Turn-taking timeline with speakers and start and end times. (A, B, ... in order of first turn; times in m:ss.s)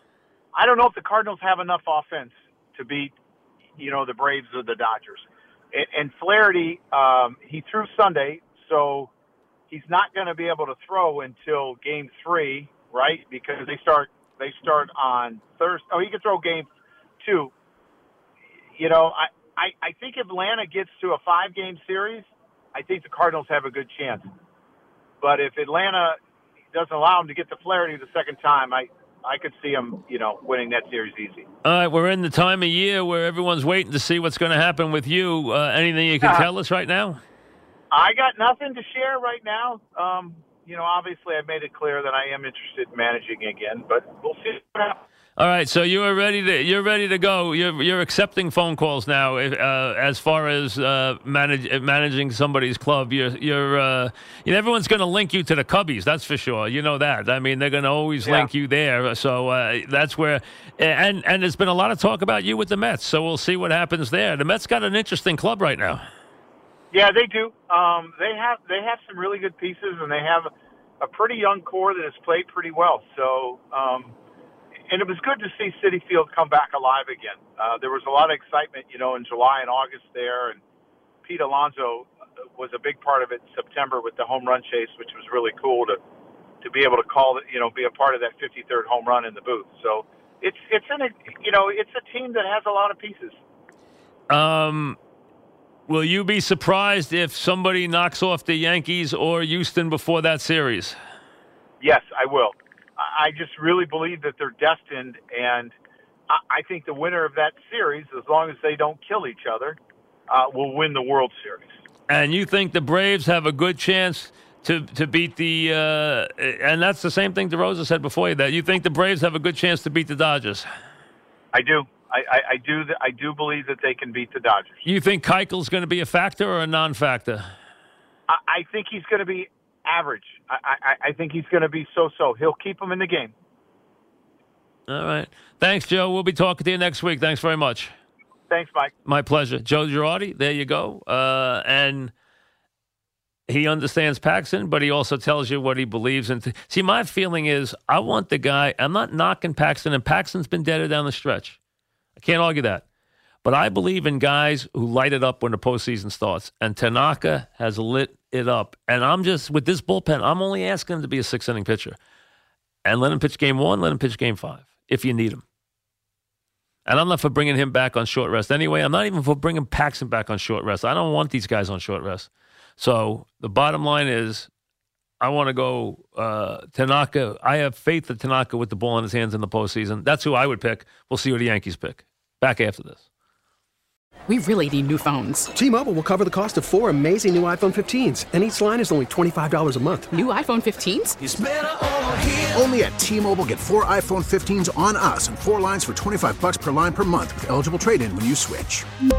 0:00.5-0:03.1 A
0:03.8-0:09.1 A
0:09.7-0:16.7 A
0:17.2-0:17.5 A
0:18.8-0:24.3 A
0:25.2-0:26.2 A
0:26.7-0:31.5 A
0:31.6-0:37.2 B
0:36.2-0:36.5 A
0:37.9-0:45.0 A
0:45.4-1:06.0 B
0:58.2-0:58.5 A
1:06.9-1:14.1 A
1:14.9-1:20.6 A
1:21.2-1:26.0 A
1:26.6-1:33.4 A
1:34.3-1:35.0 B
1:35.9-1:41.0 B
1:41.8-1:45.7 A
1:46.3-1:49.8 A
1:50.3-1:51.8 A
1:52.1-2:00.6 B
2:01.5-2:04.8 A
2:04.8-2:07.4 B
2:08.3-2:13.3 A
2:14.9-2:17.9 B
2:18.5-2:18.9 A
2:19.0-2:22.1 B
2:23.5-2:31.6 B
2:32.2-2:32.8 B
2:33.4-2:42.0 B
2:42.8-2:45.4 B
2:46.8-2:54.5 B
2:55.2-3:03.0 B
3:04.3-3:05.5 C
3:05.6-3:10.1 D
3:10.1-3:11.2 C
3:11.2-3:18.8 E